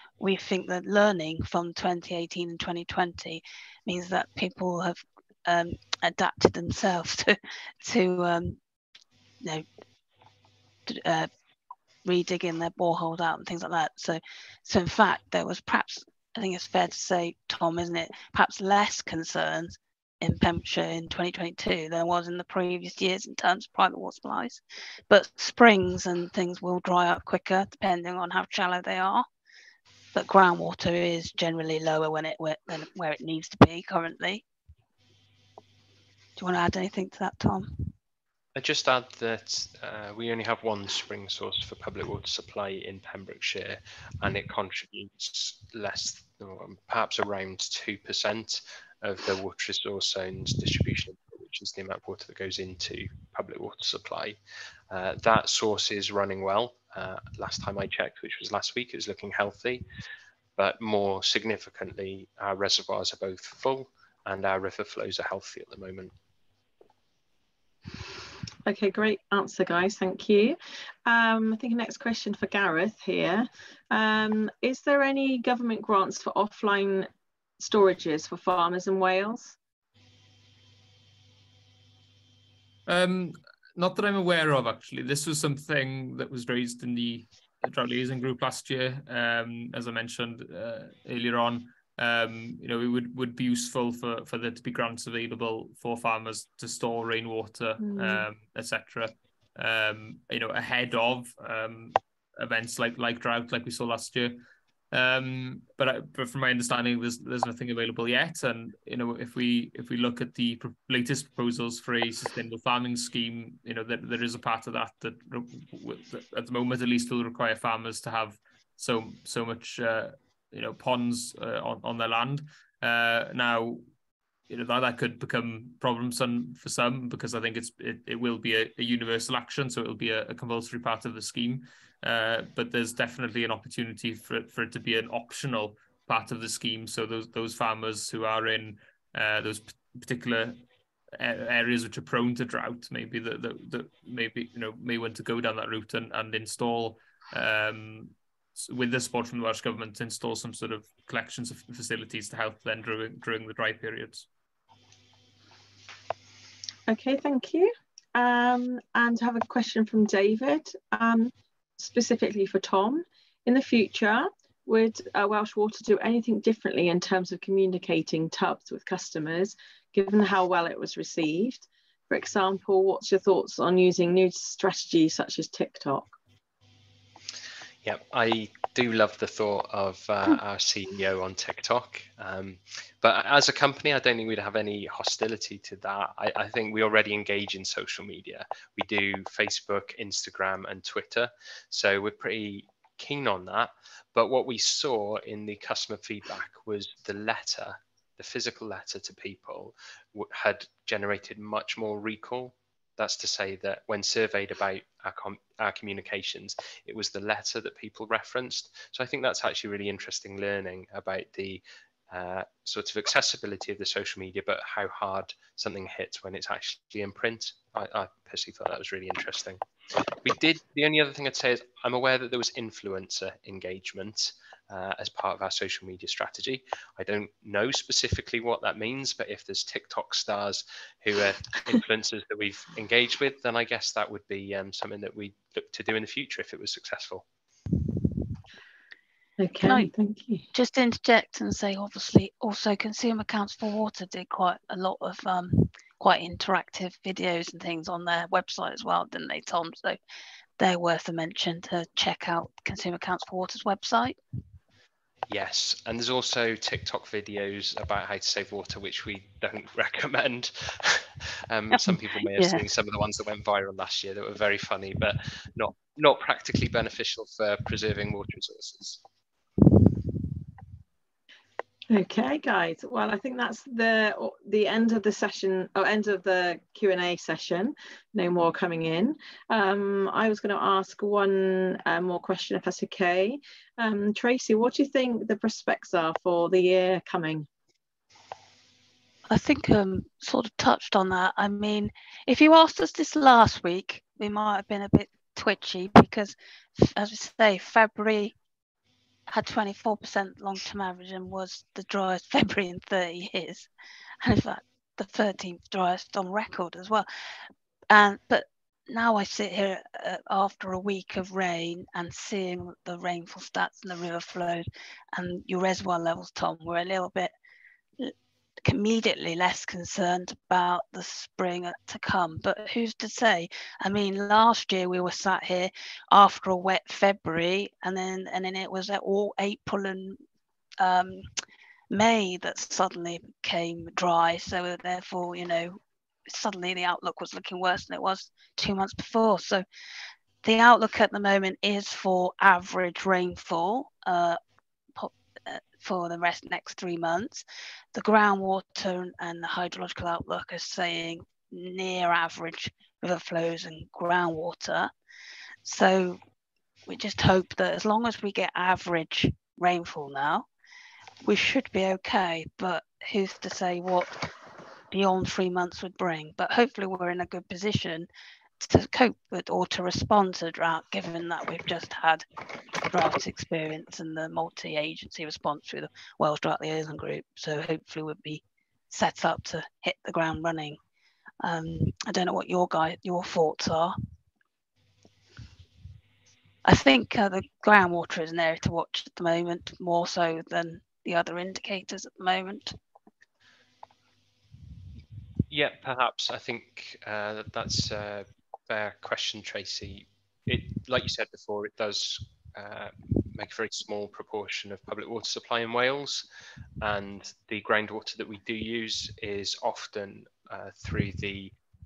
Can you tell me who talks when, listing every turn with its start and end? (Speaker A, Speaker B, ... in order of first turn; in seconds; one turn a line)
Speaker A: 0.2-8.6
Speaker A: 10.9-11.3
Speaker A: 12.0-29.2
Speaker A: 30.1-34.4
Speaker A: 36.4-37.9
Speaker B: 38.5-54.4
Speaker B: 54.9-59.8
Speaker B: 60.6-66.1
Speaker C: 68.7-77.1
Speaker C: 77.6-79.6
Speaker D: 82.9-104.4
Speaker C: 97.8-98.3
Speaker D: 104.9-123.8
Speaker D: 124.5-140.6
Speaker D: 141.1-154.3
Speaker C: 156.9-176.1
Speaker B: 177.8-219.6
Speaker B: 220.2-237.2
Speaker C: 239.4-240.4
Speaker A: 239.6-239.9
Speaker A: 240.5-250.0
Speaker A: 250.6-254.2
Speaker B: 255.3-269.0
Speaker A: 261.7-262.6
Speaker C: 271.9-287.5
Speaker A: 289.3-298.3
Speaker A: 299.3-303.7
Speaker A: 304.2-307.1
Speaker A: 307.9-317.3
Speaker A: 318.6-330.2
Speaker A: 330.8-331.3
Speaker A: 331.9-339.6
Speaker A: 340.4-344.4
Speaker A: 344.9-354.9
Speaker A: 355.6-356.2
Speaker A: 356.9-360.5
Speaker A: 361.2-364.2
Speaker A: 364.9-368.1
Speaker A: 368.6-372.2
Speaker A: 372.9-380.8
Speaker A: 381.4-383.9
Speaker A: 386.6-392.7
Speaker B: 395.5-406.2
Speaker B: 406.8-411.5